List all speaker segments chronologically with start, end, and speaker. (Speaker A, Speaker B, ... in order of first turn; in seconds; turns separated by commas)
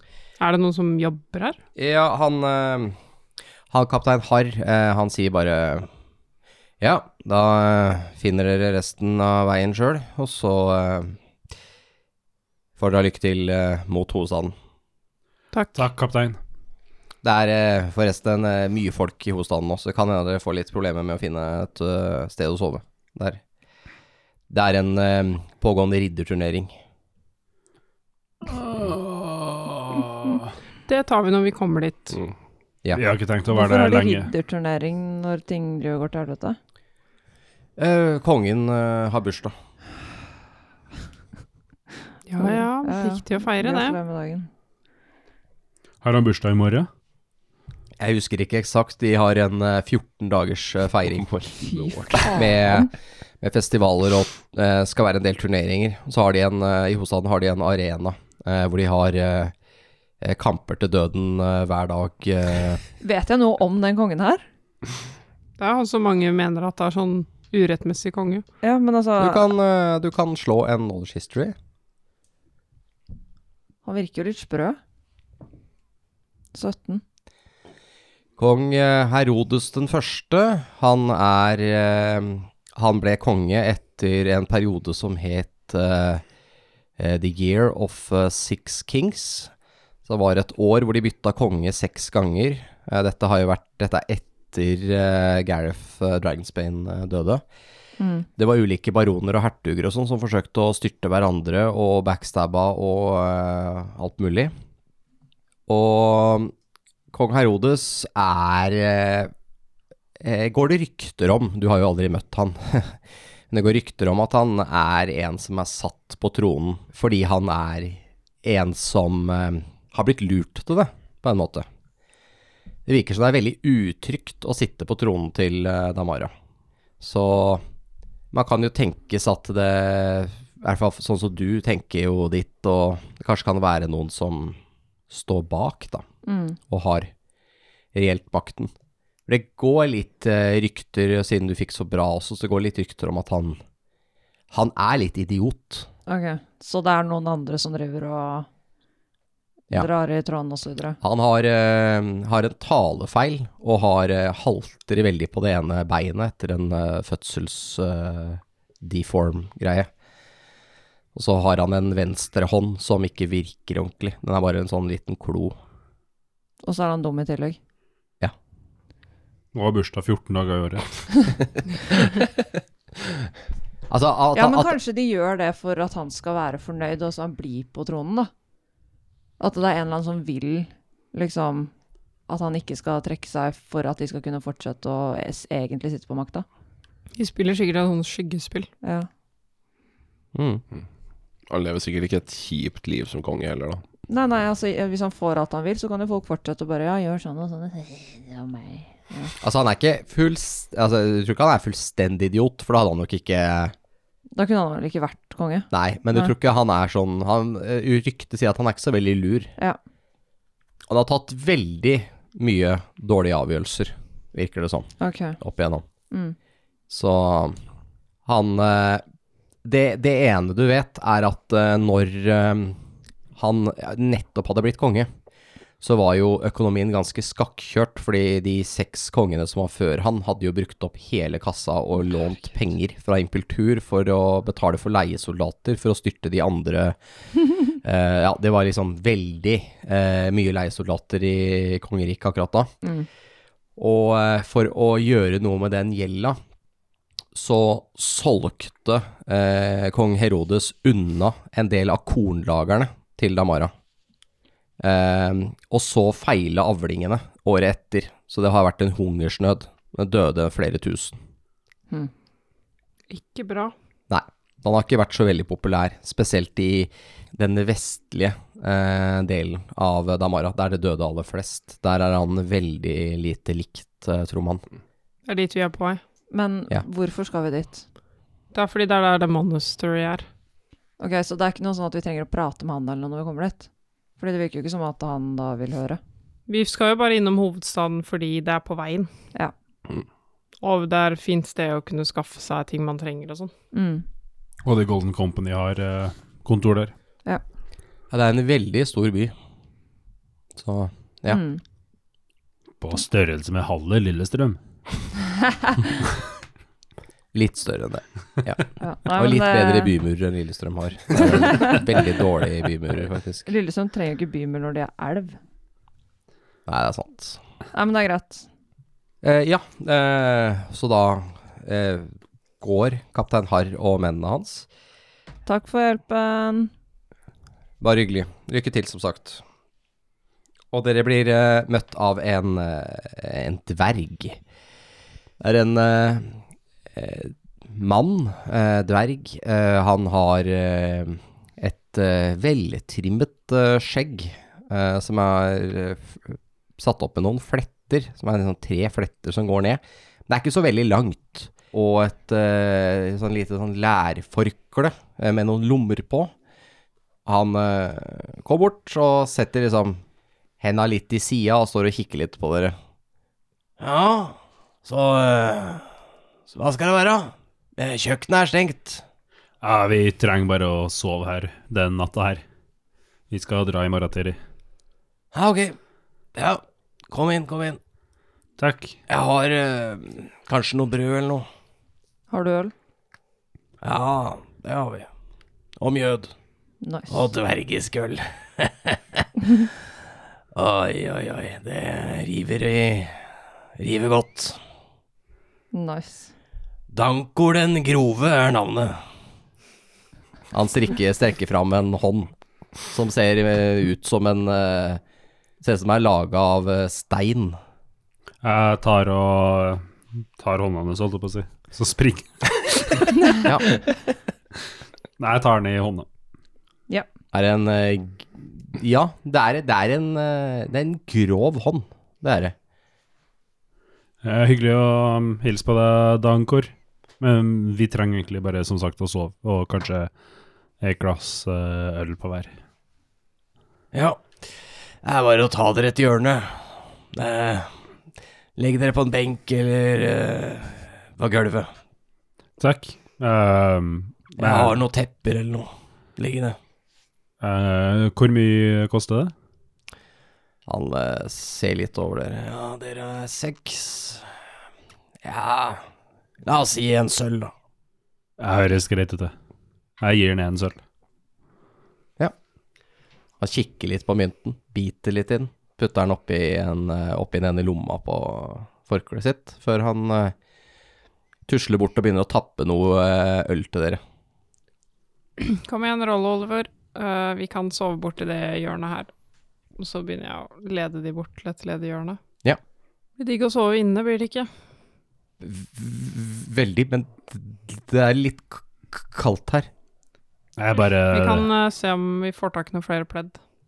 Speaker A: 0.4-1.6, Speaker B: 1.8-3.0, Speaker B: 3.7-5.9, Speaker B: 6.8-11.2, Speaker B: 12.8-14.5, Speaker C: 15.7-16.4, Speaker B: 17.2-23.4, Speaker B: 24.5-26.8, Speaker C: 28.4-30.5, Speaker A: 30.9-32.2, Speaker C: 32.9-34.3, Speaker D: 33.5-36.6, Speaker B: 37.8-39.5, Speaker A: 42.3-44.0, Speaker D: 42.4-44.5, Speaker C: 46.0-46.9, Speaker B: 48.0-59.5, Speaker D: 51.6-52.9, Speaker B: 60.2-62.8, Speaker D: 63.0-64.4, Speaker A: 65.6-68.4, Speaker D: 68.6-69.5, Speaker B: 69.2-71.5, Speaker D: 73.8-74.8, Speaker D: 76.5-77.0, Speaker B: 78.4-86.2, Speaker B: 87.0-89.5, Speaker B: 90.0-97.4, Speaker D: 98.0-98.3, Speaker B: 98.4-104.5, Speaker B: 105.7-106.5, Speaker B: 107.1-109.3, Speaker B: 110.2-113.0, Speaker B: 113.5-121.7, Speaker B: 122.8-126.3, Speaker B: 127.0-127.6, Speaker B: 128.3-134.6, Speaker B: 135.1-136.0, Speaker D: 136.2-136.6, Speaker B: 136.7-137.1, Speaker B: 137.9-138.7, Speaker B: 139.3-143.6, Speaker B: 144.5-145.9, Speaker D: 146.1-148.5, Speaker D: 149.7-151.0, Speaker B: 151.0-159.9, Speaker B: 161.1-165.5, Speaker D: 166.6-167.6, Speaker C: 169.5-171.4, Speaker B: 173.9-174.8, Speaker D: 174.3-178.3, Speaker D: 179.4-181.7, Speaker D: 182.3-186.4, Speaker A: 187.2-188.7, Speaker D: 188.8-189.1, Speaker B: 190.3-190.6, Speaker E: 191.5-193.8, Speaker D: 194.1-199.3, Speaker B: 199.4-203.7, Speaker D: 204.3-206.3, Speaker B: 205.7-209.5, Speaker B: 210.9-215.8, Speaker D: 215.0-215.4, Speaker D: 216.1-216.3, Speaker B: 216.9-217.6, Speaker B: 218.2-219.0, Speaker B: 219.6-222.8, Speaker B: 223.3-225.1, Speaker B: 225.8-237.0, Speaker B: 237.5-242.7, Speaker B: 243.8-246.4, Speaker B: 247.3-253.7, Speaker B: 254.8-261.2, Speaker A: 263.1-263.7, Speaker B: 264.1-274.6, Speaker A: 275.2-276.0, Speaker D: 276.3-277.8, Speaker A: 278.5-280.2, Speaker D: 281.0-283.7, Speaker D: 284.2-286.0, Speaker A: 286.5-289.1, Speaker A: 290.6-293.5, Speaker D: 293.7-294.0, Speaker C: 294.6-296.9, Speaker B: 298.1-299.3, Speaker B: 300.6-301.4, Speaker D: 301.3-301.6, Speaker C: 302.8-304.6, Speaker B: 307.3-313.5, Speaker D: 308.8-309.9, Speaker D: 311.2-311.8, Speaker D: 313.4-315.4, Speaker B: 316.7-317.4, Speaker D: 317.7-318.5, Speaker B: 319.2-324.7, Speaker D: 325.4-326.7, Speaker B: 327.8-329.4, Speaker B: 330.7-334.4, Speaker B: 335.4-336.4, Speaker B: 336.9-356.3, Speaker B: 357.2-360.0, Speaker B: 360.6-362.7, Speaker B: 363.8-365.9, Speaker B: 366.5-369.0, Speaker C: 369.6-372.4, Speaker C: 373.3-374.4, Speaker B: 375.3-375.8, Speaker B: 376.3-377.8, Speaker C: 378.6-379.0, Speaker B: 379.1-381.4, Speaker D: 382.3-382.7, Speaker B: 383.8-385.1, Speaker B: 385.8-386.3, Speaker D: 386.8-387.3, Speaker B: 387.1-389.2, Speaker B: 390.5-393.2, Speaker B: 393.8-394.6, Speaker D: 395.7-396.3, Speaker B: 396.9-399.0, Speaker B: 400.5-402.3, Speaker B: 402.9-405.0, Speaker B: 405.6-407.6, Speaker C: 408.4-413.5, Speaker B: 413.4-413.7, Speaker C: 415.2-416.1, Speaker B: 417.3-422.5, Speaker C: 424.2-430.1, Speaker C: 430.8-432.5, Speaker B: 433.9-434.5, Speaker B: 435.0-437.7, Speaker B: 438.6-441.7, Speaker C: 442.6-444.8, Speaker B: 444.3-446.6, Speaker C: 447.4-449.3, Speaker B: 450.6-454.3, Speaker B: 455.2-455.8, Speaker B: 456.4-457.5, Speaker C: 458.4-459.3, Speaker C: 460.0-460.8, Speaker B: 463.4-470.3, Speaker B: 471.5-474.0, Speaker A: 475.4-479.1, Speaker A: 479.8-482.2, Speaker A: 483.2-484.5, Speaker B: 485.4-489.7, Speaker C: 490.6-491.5, Speaker A: 491.1-493.4